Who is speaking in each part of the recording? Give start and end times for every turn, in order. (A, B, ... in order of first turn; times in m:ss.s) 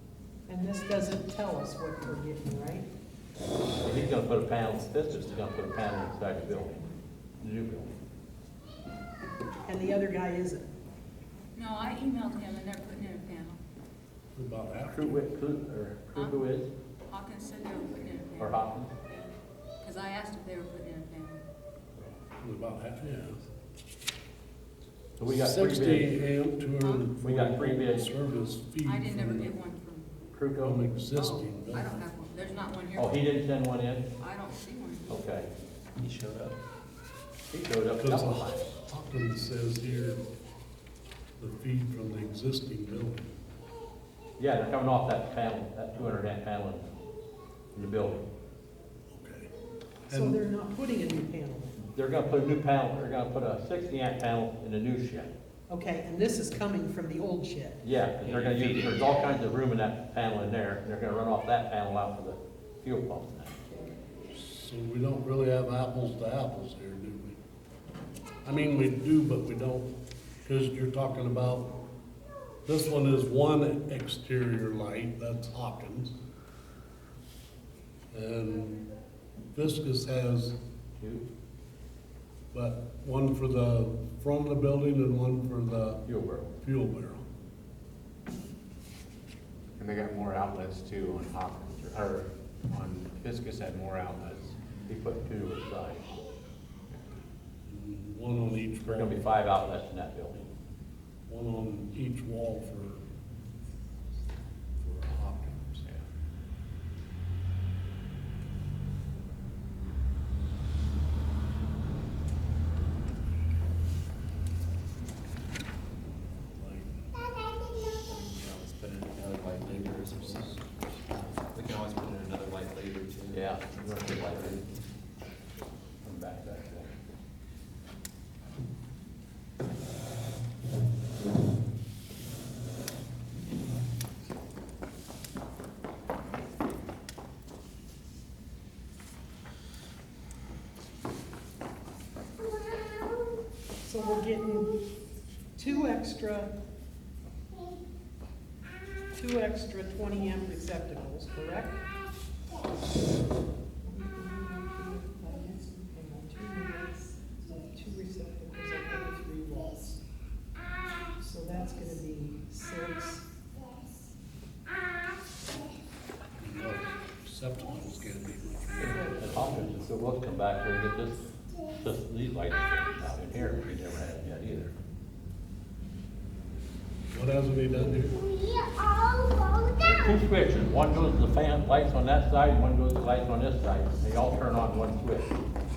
0:00.5-0:02.9 A
0:03.8-0:06.8 B
0:07.4-0:07.9 B
0:09.6-0:10.7 A
0:11.5-0:13.6 C
0:14.3-0:15.1 D
0:14.9-0:16.7 B
0:16.1-0:16.4 C
0:17.1-0:21.4 C
0:18.4-0:18.9 B
0:22.4-0:23.4 D
0:25.2-0:26.1 B
0:25.2-0:29.6 D
0:26.8-0:27.2 C
0:27.2-0:28.1 B
0:28.8-0:30.3 C
0:30.3-0:30.8 B
0:30.6-0:32.0 D
0:31.0-0:33.3 C
0:33.0-0:34.1 B
0:34.2-0:35.2 C
0:35.1-0:35.5 B
0:36.0-0:36.6 E
0:37.5-0:38.6 B
0:38.0-0:40.2 D
0:41.4-0:43.2 D
0:44.4-0:46.9 B
0:47.7-0:48.2 B
0:49.1-0:49.5 D
0:50.1-0:50.4 D
0:50.1-0:51.8 A
0:51.8-0:55.3 B
0:55.7-0:57.8 A
0:57.8-1:03.6 B
0:58.2-0:59.4 E
1:04.3-1:07.4 D
1:08.4-1:09.9 D
1:10.4-1:11.7 D
1:12.6-1:16.1 D
1:18.1-1:18.9 D
1:19.5-1:20.6 D
1:21.0-1:21.2 B
1:22.5-1:26.0 D
1:26.0-1:26.5 B
1:26.6-1:27.2 D
1:29.8-1:34.5 F
1:34.9-1:36.0 B
1:37.7-1:39.2 D
1:38.8-1:40.4 B
1:41.3-1:43.0 D
1:44.8-1:45.8 D
1:56.5-1:57.1 D
1:58.0-2:00.6 E
1:59.8-2:00.5 D
2:01.3-2:04.6 E
2:03.3-2:04.6 B
2:06.0-2:06.9 B
2:23.8-2:24.7 A
2:25.6-2:26.5 A
2:29.2-2:31.8 A
2:33.8-2:40.0 A
2:41.0-2:43.3 A
2:46.4-2:49.2 D
2:48.8-2:54.7 B
2:48.8-2:49.8 A
2:57.1-2:58.3 D
2:59.8-3:05.3 B